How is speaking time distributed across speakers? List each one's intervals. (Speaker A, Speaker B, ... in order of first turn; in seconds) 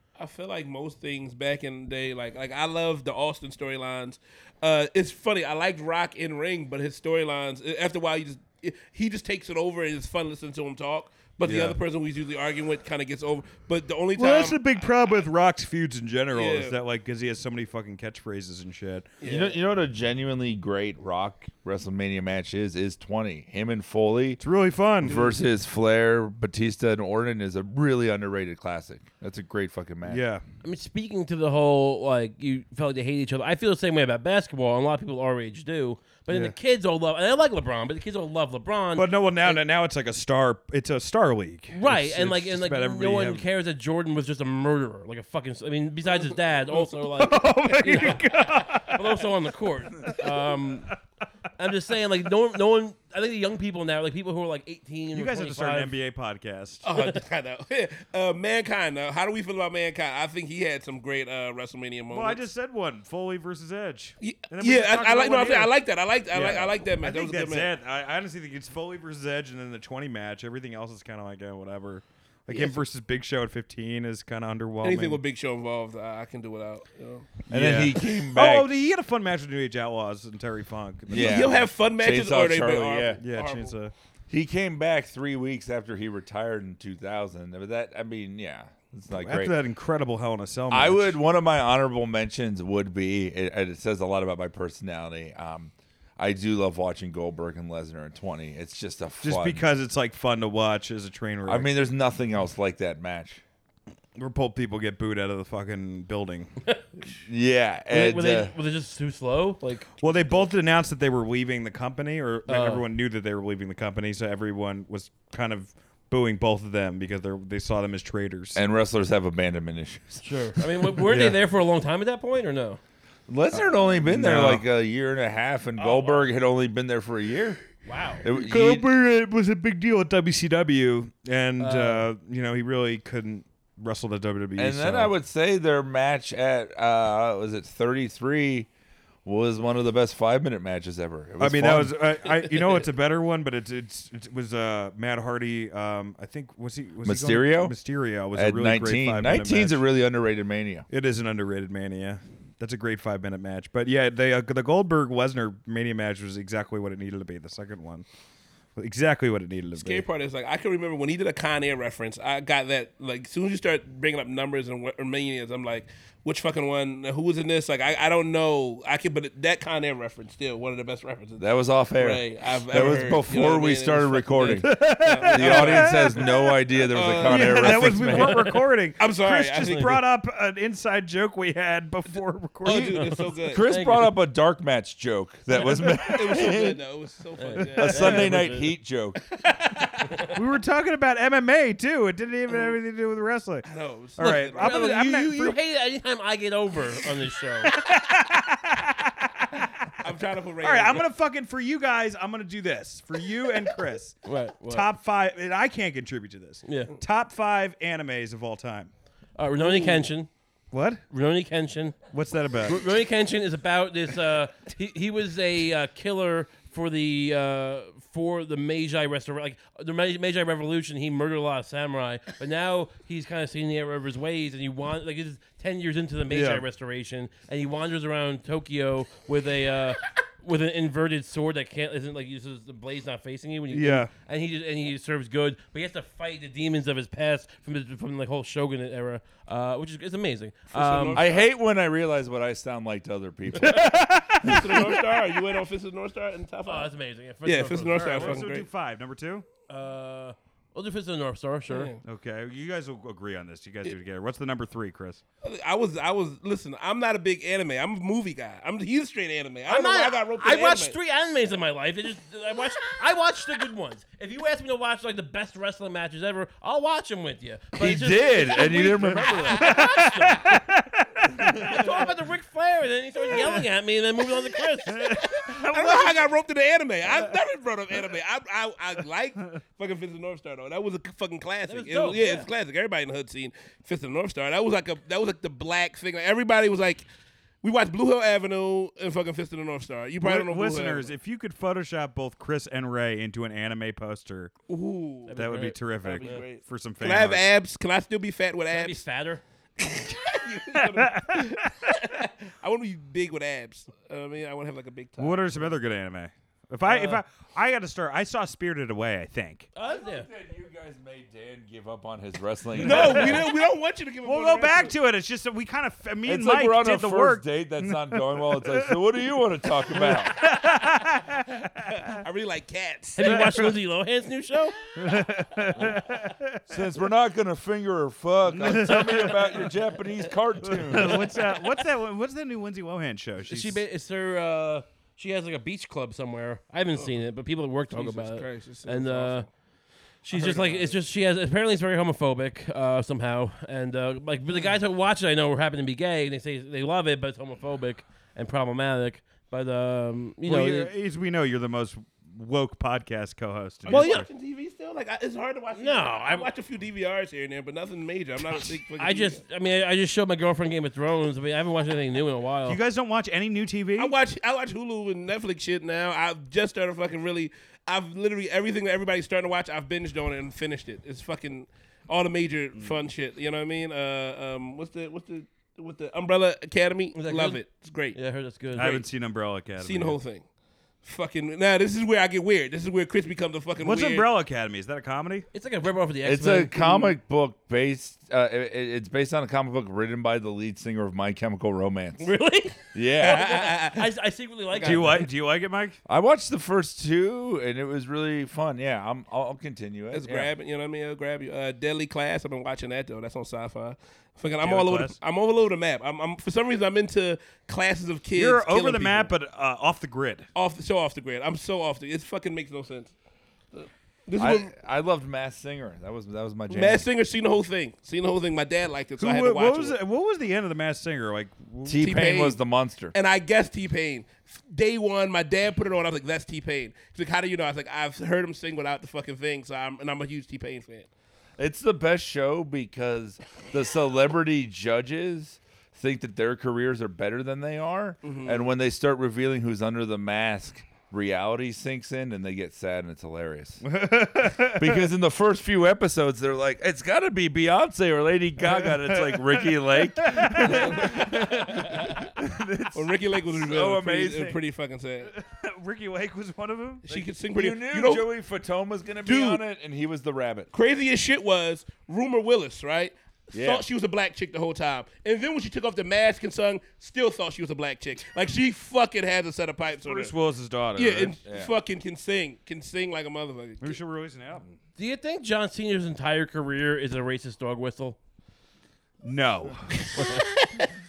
Speaker A: 0.2-14.6, 16.3-16.8, 19.2-19.6, 25.1-25.4, 56.9-62.4, 64.2-67.7, 72.5-72.8, 74.8-77.3, 81.1-83.8, 159.8-176.4, 176.9-180.1, 182.6-183.7, 185.8-188.4, 193.7-194.9, 200.0-201.1, 240.7-241.5, 244.4-246.9, 247.4-248.7, 251.7-252.0, 255.4-261.0, 275.3-287.1, 287.6-291.1, 294.7-295.4, 296.0-299.0, 299.8-305.7, 312.8-314.9, 322.1-323.6, 337.9-339.5, 340.3-341.0, 353.9-359.4, 364.0-378.2, 378.8-379.1, 379.8-380.5, 381.0-384.3, 393.2-394.1, 394.8-395.2, 400.1-409.3, 410.6-413.1, 413.7-414.7, 416.7-420.0, 422.0-422.6, 423.1-431.1, 438.2-438.7, 452.9-455.3, 457.1-458.3, 459.2-459.6, 460.7-470.4, 471.0-474.0
Speaker B: 11.4-11.8, 14.2-19.1, 24.4-25.2, 30.1-30.4, 36.3-36.5, 39.0-43.5, 46.8-49.3, 50.0-50.6, 55.1-56.9, 62.1-65.7, 66.3-75.2, 77.5-81.7, 83.2-83.9, 89.2-91.2, 99.2-101.7, 104.2-106.5, 110.0-118.6, 121.0-121.4, 124.0-124.6, 128.3-135.1, 141.4-149.8, 150.9-158.1, 158.8-160.1, 174.6-176.3, 177.2-183.2, 190.3-195.6, 197.7-200.1, 200.6-208.9, 210.7-211.0, 212.1-212.9, 226.3-226.7, 233.7-234.1, 243.7-245.0, 247.9-249.5, 252.0-255.2, 269.6-271.8, 274.9-276.2, 290.2-294.5, 295.4-297.4, 300.7-301.9, 305.2-309.7, 312.8-313.4, 314.2-318.9, 319.9-322.2, 323.2-323.8, 325.0-326.8, 328.5-329.6, 330.6-333.8, 350.4-354.3, 362.7-364.1, 378.8-380.2, 383.8-385.5, 394.8-396.0, 404.6-405.2, 408.4-410.5, 419.2-422.2, 443.8-445.0, 448.7-453.0, 455.2-457.1, 470.1-471.4, 473.8-474.6, 479.2-480.5
Speaker C: 19.2-24.4, 25.0-30.2, 77.5-78.7, 81.1-83.2, 84.3-89.6, 90.7-99.7, 101.5-103.4, 107.2-108.5, 118.5-120.6, 123.3-127.6, 128.2-128.9, 134.6-138.7, 139.2-142.1, 147.0-147.8, 148.3-150.9, 171.4-178.5, 183.5-186.8, 187.8-189.2, 241.1-244.1, 267.8-269.8, 309.8-313.5, 316.2-320.4, 326.7-331.3, 386.2-392.3, 392.9-393.6, 396.1-400.5, 414.4-417.1, 421.9-423.1, 431.6-443.9, 444.7-452.6, 453.6-454.6, 457.1-460.7, 463.5-463.9, 471.5-471.7
Speaker D: 30.6-39.6, 41.7-50.9, 51.6-55.9, 107.9-110.5, 112.5-112.9, 120.2-122.8, 127.9-128.2, 131.6-132.1, 183.0-184.2, 187.4-188.8, 194.2-197.8, 204.2-204.9, 206.7-206.9, 209.4-210.3, 211.1-212.0, 212.6-241.2, 246.7-248.5, 249.7-251.9, 259.7-270.6, 271.5-275.3, 281.7-282.5, 295.3-296.4, 298.7-299.4, 309.8-310.3, 323.2-324.8, 333.5-339.5, 340.2-350.9, 353.9-354.3, 355.8-356.5, 359.0-362.8, 377.2-379.0, 385.5-387.1, 392.2-395.3, 475.0-478.2, 480.1-480.9